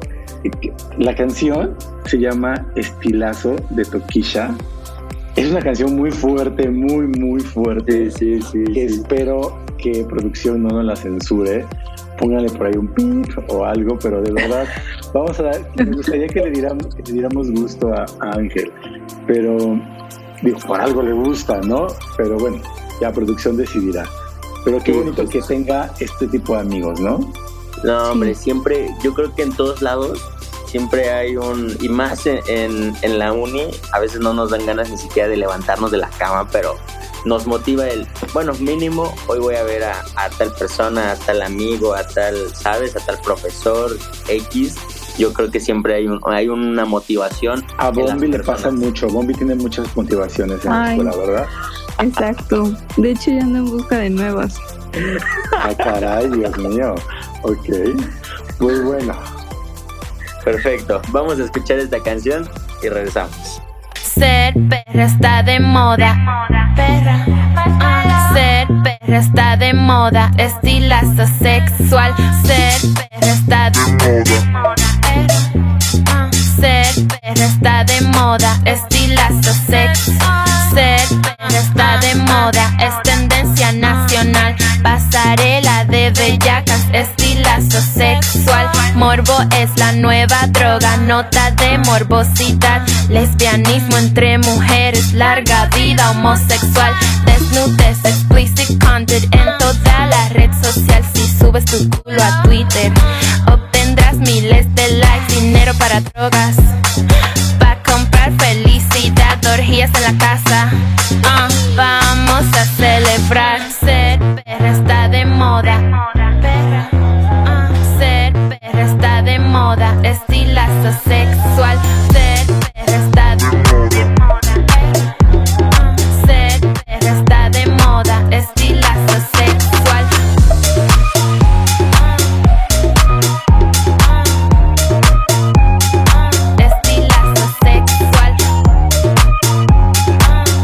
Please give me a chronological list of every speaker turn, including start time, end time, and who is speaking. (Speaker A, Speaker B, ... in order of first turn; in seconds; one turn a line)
Speaker A: 0.4-4.6
Speaker A: 5.3-8.1
Speaker B: 7.9-9.0
Speaker A: 8.7-19.9
Speaker A: 20.4-24.1
Speaker A: 24.6-27.4
Speaker B: 24.8-25.5
Speaker B: 27.8-48.7
Speaker C: 28.0-28.4
Speaker A: 47.8-51.5
Speaker C: 50.6-51.1
Speaker C: 52.0-54.6
Speaker A: 55.6-58.0
Speaker A: 58.6-59.2
Speaker B: 60.4-63.6
Speaker D: 64.0-75.5
Speaker D: 76.1-106.8
Speaker D: 107.6-125.1
Speaker D: 125.7-130.1
Speaker D: 136.6-138.3